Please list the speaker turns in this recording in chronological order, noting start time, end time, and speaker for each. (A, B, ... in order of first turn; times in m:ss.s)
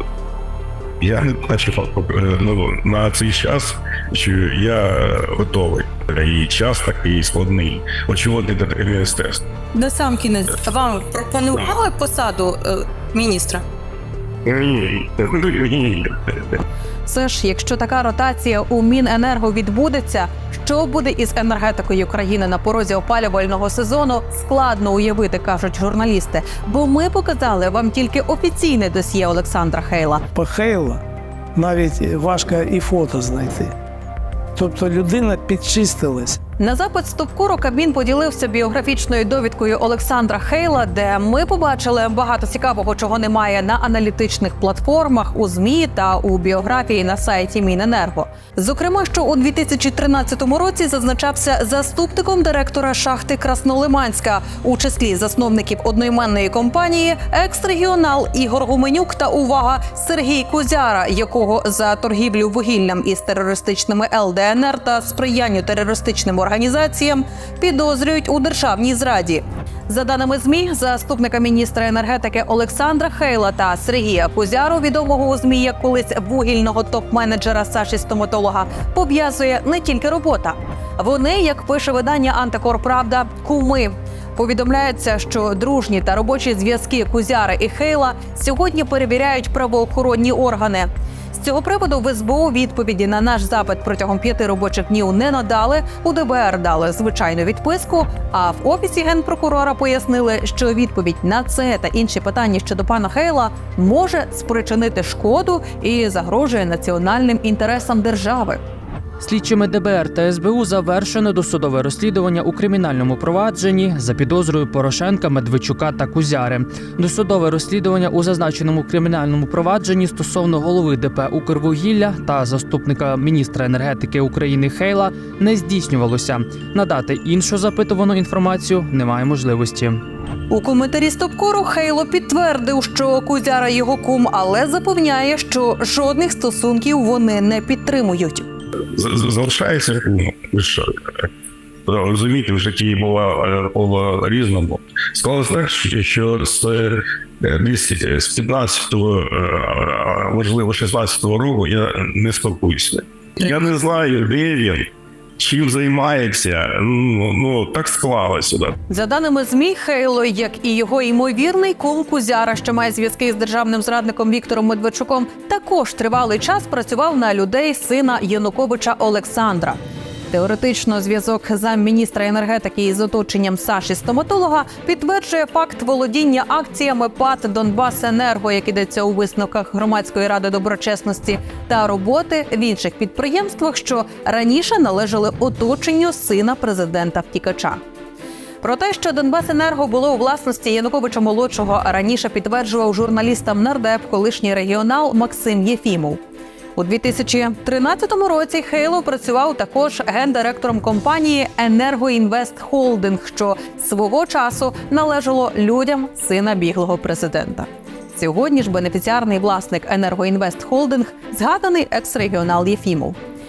0:01.0-0:09.4 A
0:09.7-0:13.6 B
0:14.4-0:16.6 A
0:17.1-0:30.2 C
0:30.3-0:31.0 D
0:31.5-0:33.7 D
0:34.6-0:36.4 D
0:36.6-1:48.6 C
1:49.2-2:10.0 E
2:10.5-2:18.5 C
2:19.0-2:21.3 A
2:21.9-2:34.9 A
2:35.4-2:38.7 A
2:38.9-2:49.8 C
2:50.3-3:07.8 C
3:08.6-3:16.2 C
3:16.8-3:33.2 C